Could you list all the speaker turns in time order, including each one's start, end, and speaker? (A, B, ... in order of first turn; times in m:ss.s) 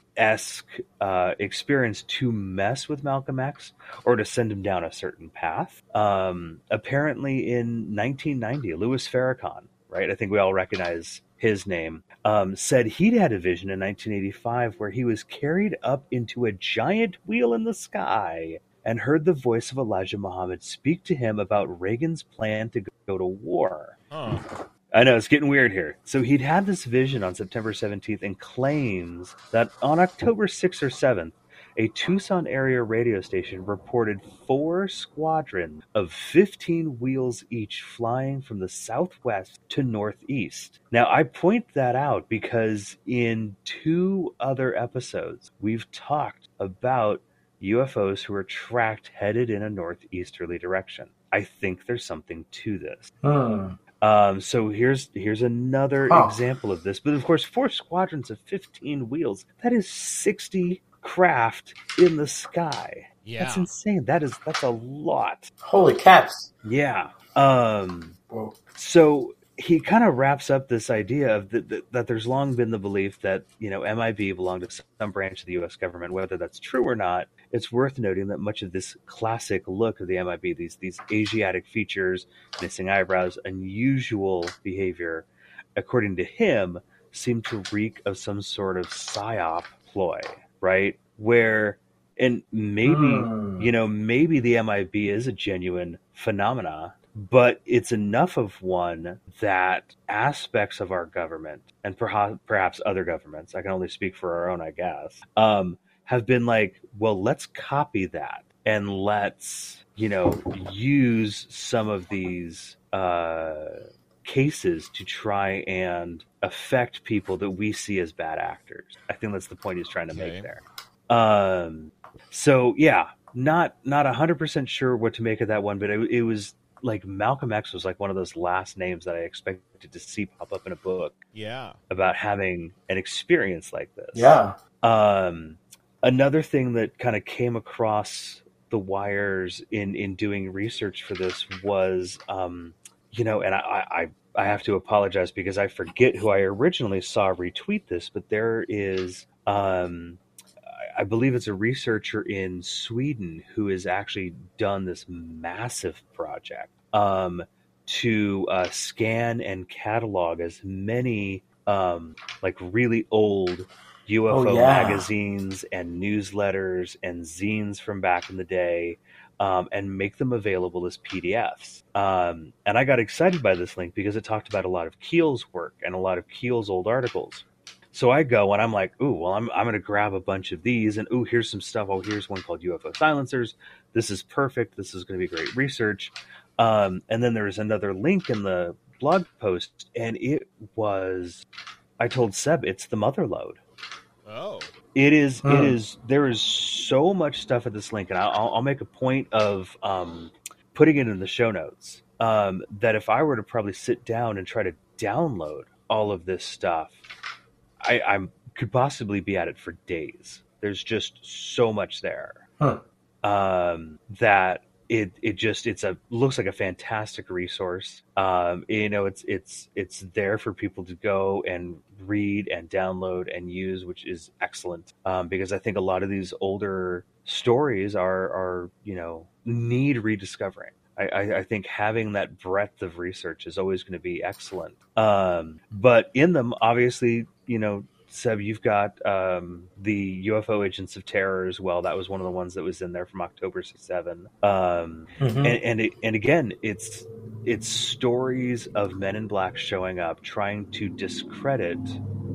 0:00.2-0:24.0 A
0:24.1-0:24.4 B
0:24.9-0:53.1 A
0:53.2-0:53.8 C
0:54.0-1:05.5 A
0:56.1-0:56.4 C
1:03.2-1:03.7 B
1:05.6-1:06.5 C
1:06.6-1:08.2 A
1:08.3-1:08.6 C
1:08.8-2:11.2 A
1:32.8-1:33.7 C
2:00.1-2:00.5 B
2:11.3-2:11.8 B
2:11.9-2:30.2 A
2:14.1-2:14.6 C
2:30.8-3:11.4 A
2:44.3-2:45.1 C
3:12.0-3:13.6 A
3:14.2-3:14.7 B
3:14.9-3:27.0 A
3:15.4-3:15.8 C
3:27.8-3:32.4 A
3:33.2-4:12.0 A
4:05.2-4:05.6 C